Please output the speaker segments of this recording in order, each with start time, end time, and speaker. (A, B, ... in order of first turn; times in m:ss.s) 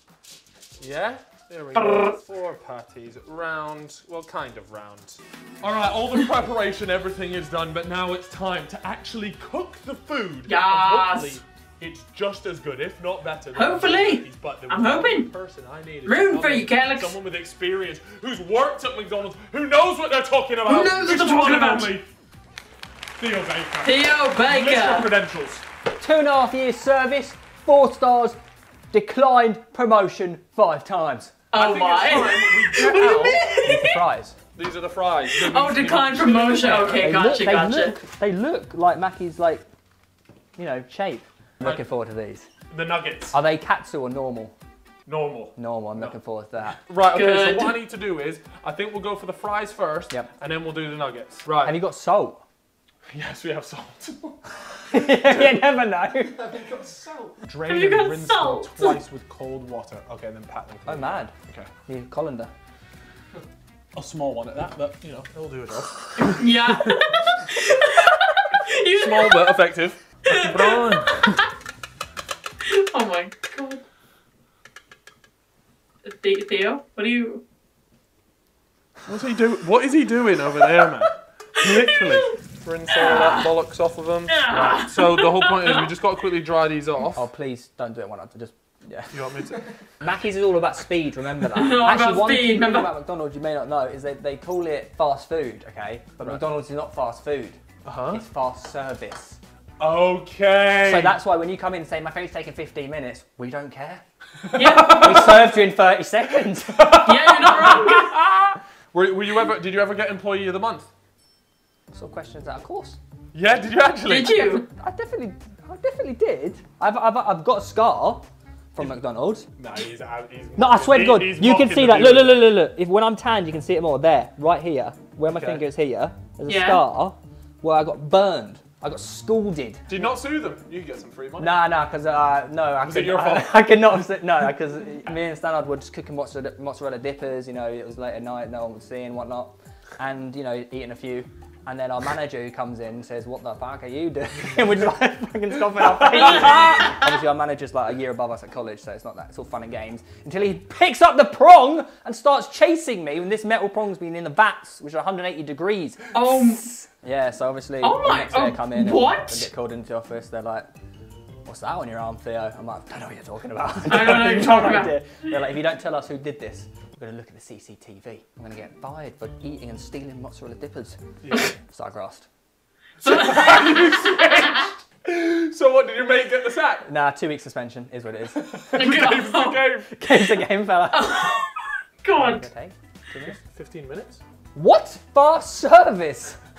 0:00.8-0:22.0 A
0:01.7-0:02.2 B
0:10.5-0:11.4 B
0:13.6-0:15.3 B
0:16.0-0:17.2 B
0:20.6-0:21.9 B
0:23.2-0:25.6 A
0:23.8-0:25.1 B
0:26.0-0:28.4 C
0:28.9-0:31.3 C
0:31.5-0:33.9 B
0:31.5-0:33.5 A
0:33.6-0:34.4 C
0:34.5-0:37.3 A
0:35.3-0:38.0 B
0:36.6-0:39.6 C
0:40.6-0:42.5 C
0:42.7-0:43.4 A
0:43.3-0:44.5 C
0:45.1-0:46.1 A
0:45.6-0:46.8 C
0:46.9-0:51.8 A
0:47.1-0:47.8 B
0:51.6-0:52.4 C
0:53.1-0:55.6 A
0:54.9-0:56.5 C
0:56.4-1:01.7 A
0:57.6-0:59.0 B
1:00.9-1:01.3 C
1:01.9-1:02.5 C
1:03.9-1:07.0 A
1:06.2-1:09.6 B
1:08.9-1:11.4 A
1:10.2-1:11.3 B
1:12.6-1:13.8 B
1:16.0-1:17.4 B
1:19.0-1:27.2 A
1:21.6-1:22.4 B
1:22.9-1:23.4 B
1:24.3-1:25.8 B
1:27.1-1:29.4 C
1:29.1-1:29.7 A
1:30.0-1:39.4 C
1:31.5-1:32.9 B
1:36.2-1:36.4 A
1:37.8-1:38.2 A
1:39.8-1:41.2 A
1:40.8-1:44.0 C
1:44.4-1:45.6 A
1:44.5-1:45.1 B
1:44.9-1:46.9 C
1:46.5-1:50.9 A
1:47.0-1:48.1 B
1:51.9-1:53.0 C
1:53.3-1:54.5 A
1:54.0-1:54.6 B
1:54.8-1:59.5 C
1:59.6-2:02.5 A
2:00.6-2:09.8 C
2:05.2-2:05.6 A
2:06.5-2:06.8 B
2:09.9-2:11.6 A
2:11.4-2:40.7 C
2:12.8-2:13.5 A
2:25.8-2:26.9 A
2:26.2-2:26.9 B
2:36.1-2:36.6 B
2:37.8-2:39.5 B
2:41.4-2:52.3 C
2:43.8-2:44.9 B
2:51.2-2:51.6 A
2:53.0-2:56.9 A
2:53.0-2:54.7 B
2:56.8-2:58.5 C
2:58.3-2:59.9 A
2:58.7-2:59.6 B
2:59.9-3:01.3 C
3:00.9-3:02.5 B
3:02.2-3:03.4 C
3:03.2-3:04.2 A
3:04.5-3:06.4 C